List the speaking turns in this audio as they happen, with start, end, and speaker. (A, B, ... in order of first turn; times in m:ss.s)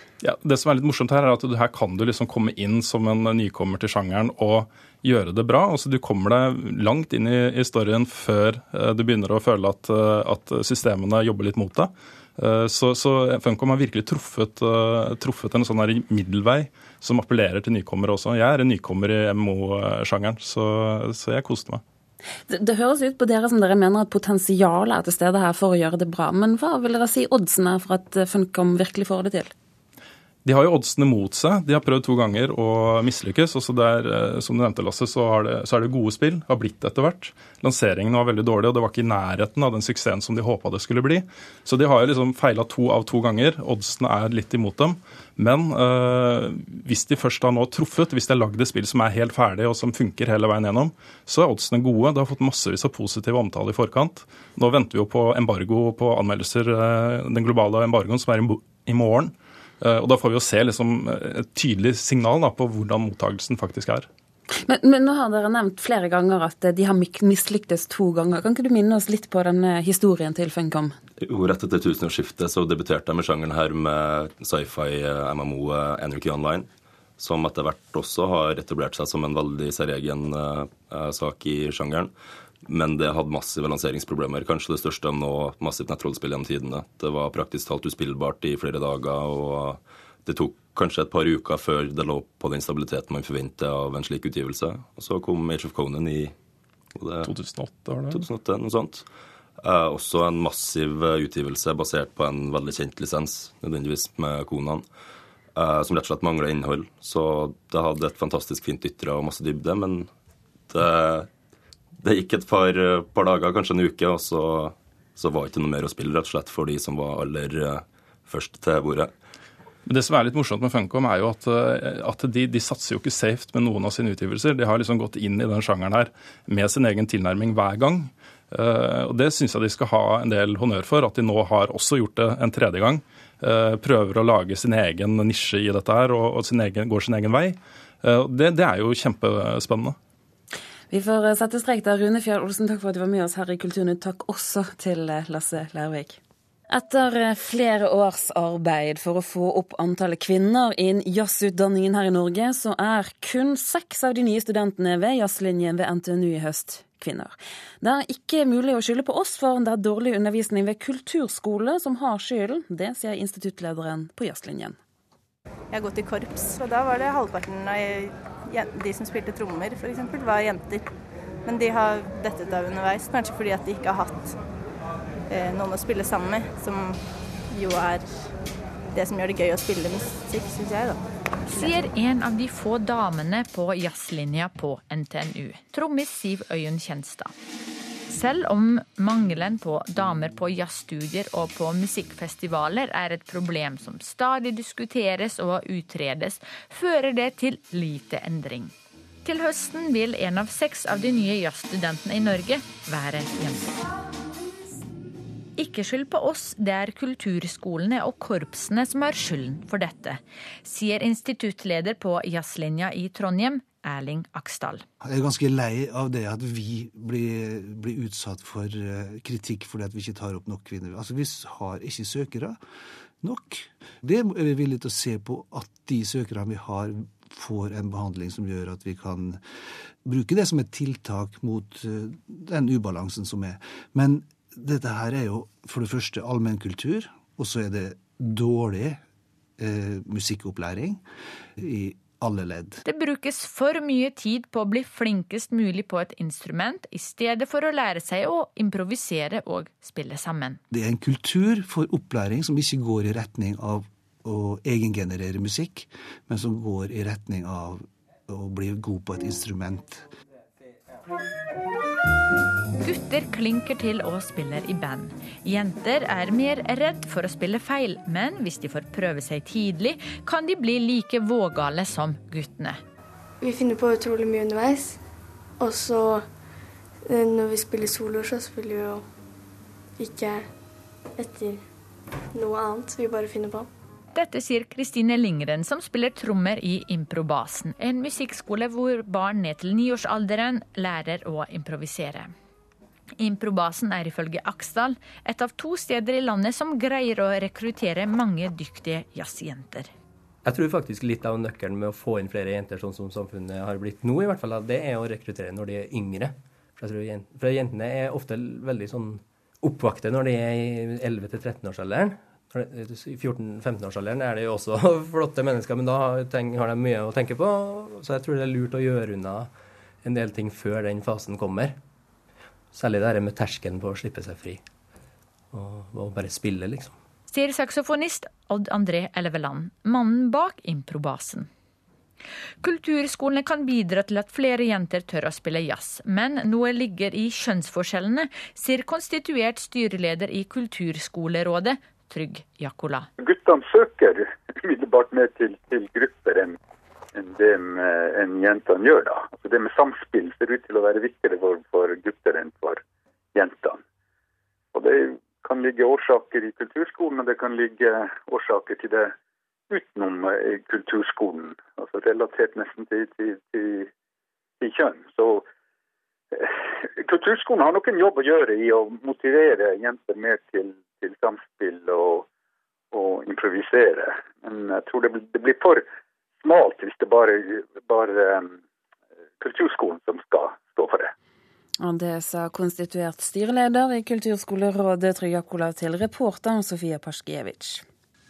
0:00.2-0:21.8 A
0:22.5-0:29.5 B
0:30.4-1:04.1 A
1:04.6-1:10.9 B
1:11.2-1:22.1 C
1:22.6-1:36.3 C
1:37.0-1:37.3 C
1:37.2-1:38.2 A
1:38.1-1:39.0 C
1:39.6-1:44.8 C
1:45.6-1:50.1 C
1:50.7-1:51.3 C
1:52.0-1:59.1 C
1:59.8-2:20.0 A
2:20.9-2:44.8 B
2:45.7-2:50.9 D
2:51.4-2:54.4 D
2:55.3-2:58.3 D
2:58.9-3:01.8 D
3:01.5-3:07.3 E
3:08.1-3:18.7 E
3:19.2-3:23.8 E
3:25.6-3:34.8 E
3:35.0-3:42.6 F
3:43.2-3:49.4 F
3:50.0-3:59.0 F
3:59.6-4:01.0 F
4:01.6-4:02.8 F
4:02.8-4:10.6 E
4:10.7-4:20.0 F
4:22.8-4:32.8 E
4:33.4-4:34.9 G
4:35.6-4:36.2 G
4:37.1-4:39.0 G
4:40.0-4:40.4 G
4:41.2-4:41.6 G
4:42.3-4:43.7 G
4:44.1-4:52.3 E
4:53.2-4:59.9 E
5:00.4-5:19.5 H
5:20.0-5:21.8 H
5:22.7-5:24.6 H
5:25.5-5:26.9 H
5:27.3-5:31.5 E
5:32.6-5:43.1 E
5:43.2-5:46.6 I
5:47.1-5:52.8 I
5:53.3-5:53.8 I
5:54.7-5:59.1 I
5:59.7-6:03.9 I
6:04.6-6:05.4 I
6:06.3-6:12.2 I
6:12.9-6:15.8 I
6:16.4-6:18.6 I
6:19.4-6:21.1 I
6:21.8-6:27.8 B